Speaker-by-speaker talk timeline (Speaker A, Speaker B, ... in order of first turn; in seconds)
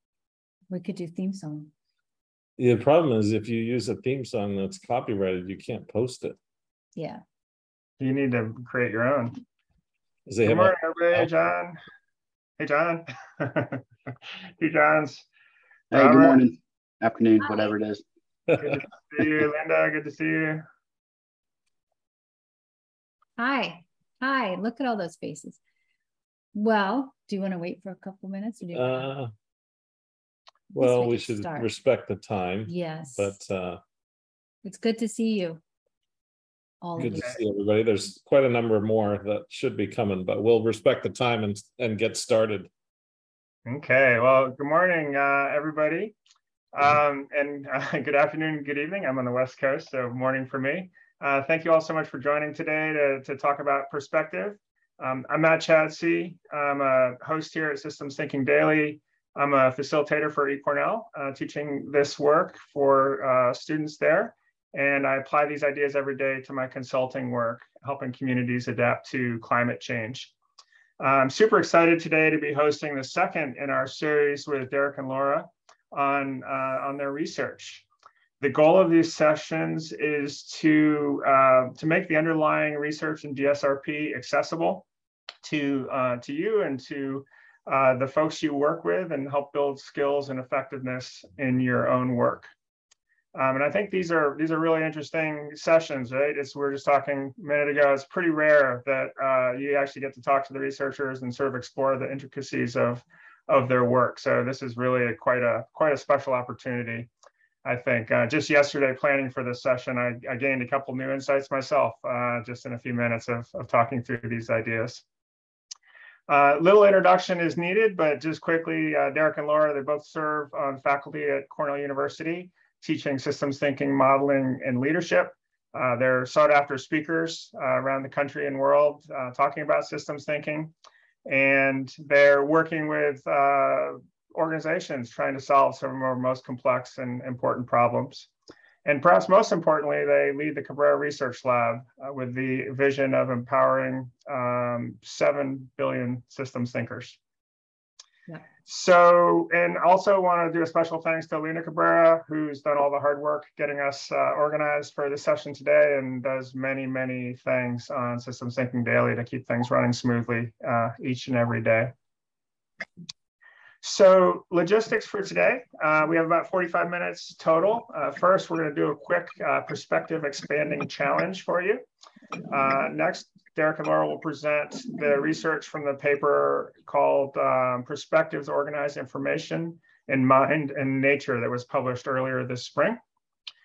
Speaker A: 0.7-1.7, 7.0-7.2, 23.4-25.6, 26.5-29.1, 30.7-31.7, 32.7-33.4, 34.6-35.6, 36.8-37.3
Speaker B: 2.6-6.4, 10.3-11.3, 18.5-18.8, 28.7-29.3, 30.8-33.8, 37.0-42.7
Speaker C: 8.0-9.4, 10.4-11.8, 12.6-13.8, 14.6-15.3, 15.9-16.4, 18.6-20.6, 43.7-46.1, 46.7-70.3, 71.0-77.8, 78.4-84.8, 85.4-92.5, 93.3-107.1, 107.7-115.0, 116.3-130.7, 131.3-138.3, 138.8-147.2, 148.6-161.9, 163.8-171.8, 172.5-183.0
Speaker D: 15.9-18.0